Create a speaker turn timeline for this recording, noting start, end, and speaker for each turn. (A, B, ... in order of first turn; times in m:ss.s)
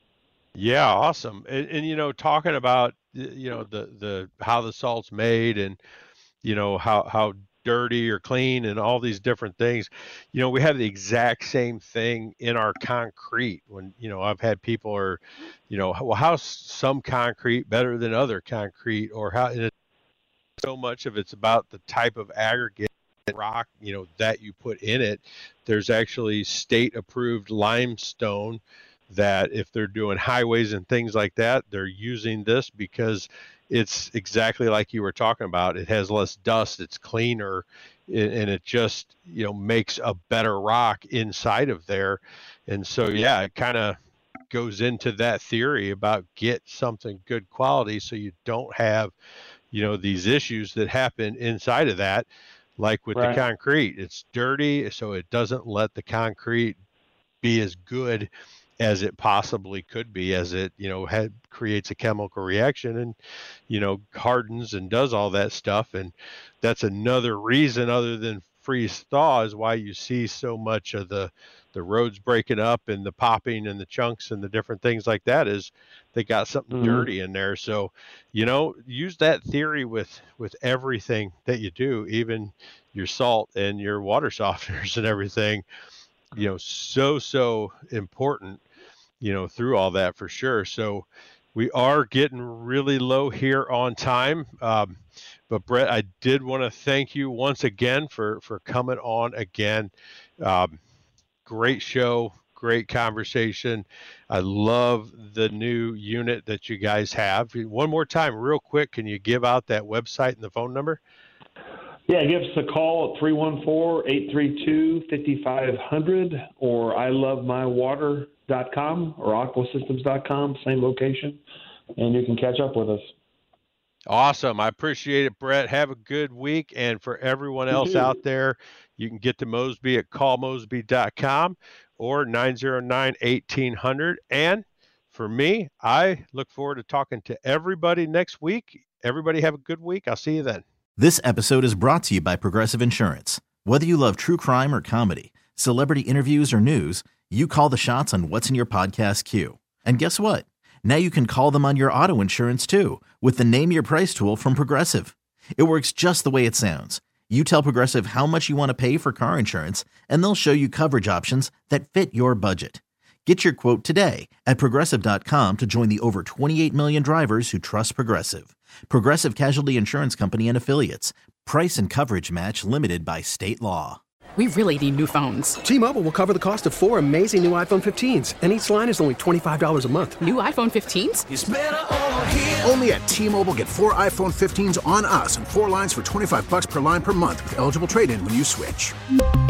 0:00.6-0:05.8 A
0:06.4-0:19.7 A
0:20.6-0:44.0 A
0:44.5-0:49.1 A
0:49.7-0:52.3 A
0:52.8-0:56.8 A
0:53.1-0:53.4 B
0:57.4-0:58.3 A
0:58.8-1:03.2 A
1:03.7-1:25.6 A
1:16.7-1:17.1 B
1:26.3-1:28.6 A
1:29.2-1:35.0 A
1:35.5-1:40.8 A
1:41.4-1:51.0 A
1:52.1-2:01.4 B
2:02.0-2:03.1 B
2:04.1-2:20.6 A
2:07.7-2:08.1 B
2:21.0-2:54.0 C
2:54.4-2:55.6 D
2:55.6-3:00.2 E
3:00.2-3:01.2 D
3:01.3-3:09.0 F